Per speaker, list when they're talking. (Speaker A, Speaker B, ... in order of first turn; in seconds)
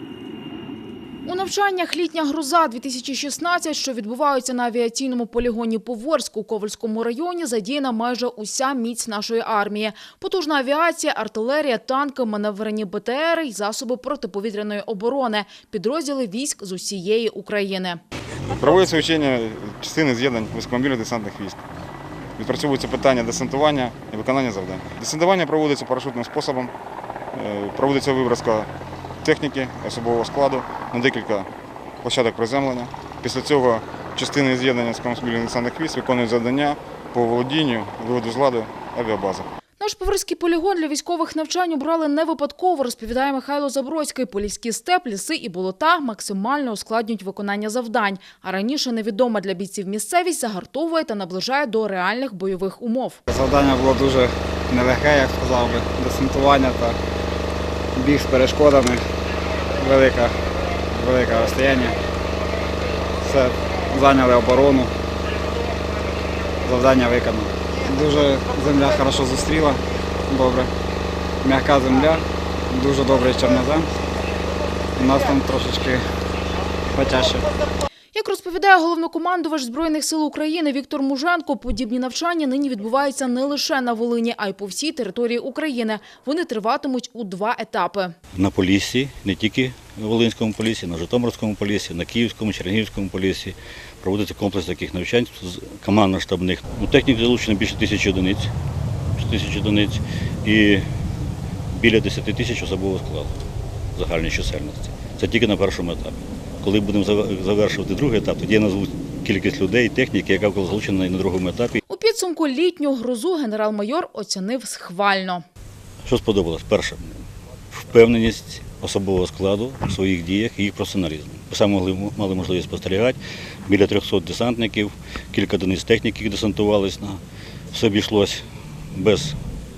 Speaker A: 1.2-18.0, 39.8-53.2, 78.1-88.1, 111.9-115.4
Speaker B: 18.5-21.6, 22.4-26.7, 27.3-28.7, 29.2-31.5, 32.0-39.5
Speaker C: 53.3-57.0, 58.0-59.0, 59.8-60.3, 60.9-62.0, 63.2-64.9, 66.6-70.7, 71.4-73.9, 75.0-76.0, 76.9-77.5
Speaker D: 88.3-98.5, 99.2-100.8, 101.7-103.3, 104.0-111.8, 116.0-117.1, 117.7-127.2, 127.7-128.4, 128.9-129.4